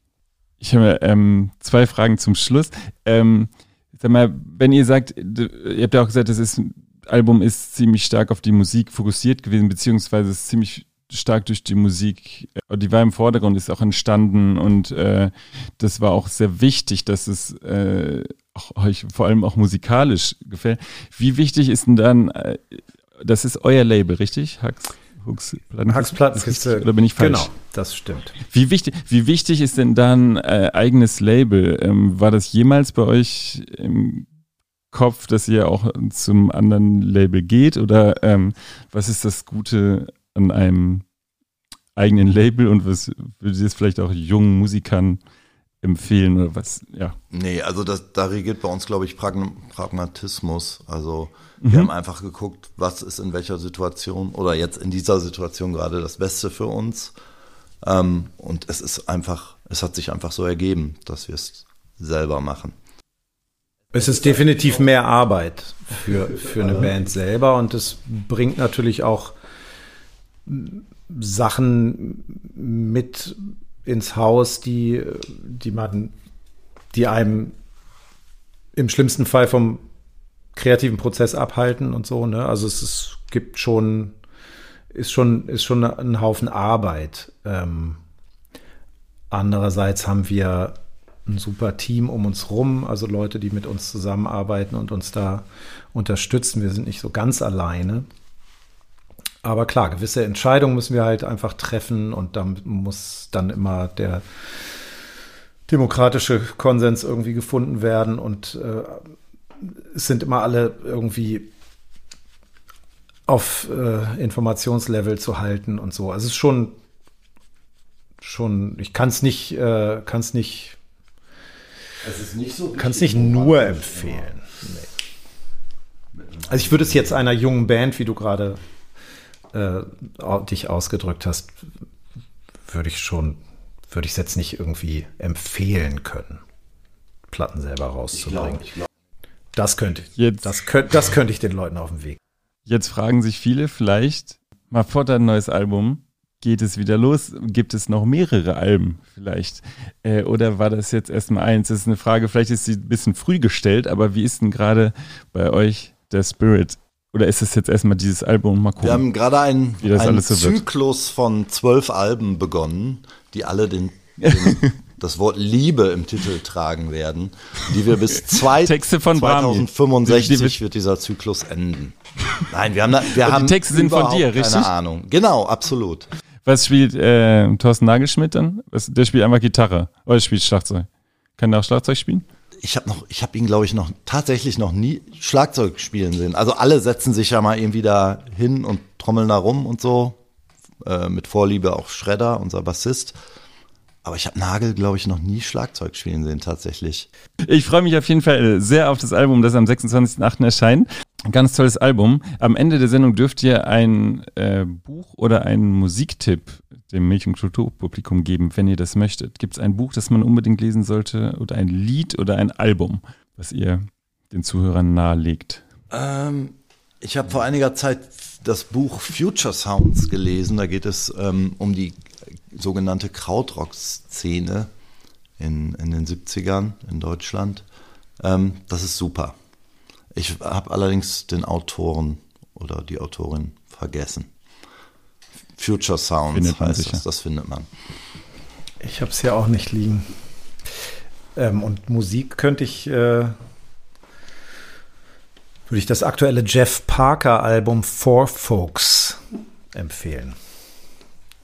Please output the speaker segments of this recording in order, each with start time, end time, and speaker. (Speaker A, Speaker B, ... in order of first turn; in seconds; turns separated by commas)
Speaker A: 0.6-27.5, Speaker B: 25.9-28.4, Speaker A: 28.4-34.3, Speaker A: 34.9-41.0, Speaker A: 42.0-45.2, Speaker A: 45.8-47.2, Speaker C: 47.3-57.1, Speaker A: 51.6-51.9, Speaker C: 57.8-62.8, Speaker B: 63.9-69.4, Speaker B: 70.5-76.1, Speaker B: 76.9-77.5, Speaker B: 78.8-79.8, Speaker B: 80.5-84.2, Speaker B: 84.9-88.0, Speaker B: 89.3-90.8, Speaker B: 91.3-98.1, Speaker B: 99.4-104.8, Speaker B: 105.7-111.5, Speaker B: 113.3-116.8, Speaker B: 118.2-120.8, Speaker C: 122.0-124.3, Speaker B: 122.8-124.9, Speaker C: 126.2-127.0, Speaker B: 126.5-128.6, Speaker B: 129.5-131.7, Speaker B: 132.7-136.4, Speaker B: 137.3-138.7, Speaker B: 139.6-142.2, Speaker A: 140.2-140.5, Speaker A: 142.7-159.1, Speaker C: 158.8-176.1, Speaker A: 159.8-160.6, Speaker A: 164.2-164.8, Speaker A: 168.5-170.6, Speaker A: 173.1-174.7, Speaker A: 176.4-180.9, Speaker A: 181.4-182.2, Speaker C: 182.6-190.2, Speaker C: 190.8-193.2, Speaker C: 194.0-197.1, Speaker A: 197.4-215.6, Speaker C: 215.9-224.7, Speaker C: 225.4-227.7, Speaker C: 228.2-229.4, Speaker C: 230.1-234.3, Speaker C: 235.6-237.7, Speaker A: 236.3-237.0, Speaker B: 238.8-240.1, Speaker B: 241.4-243.4, Speaker B: 245.7-249.2, Speaker B: 249.7-250.4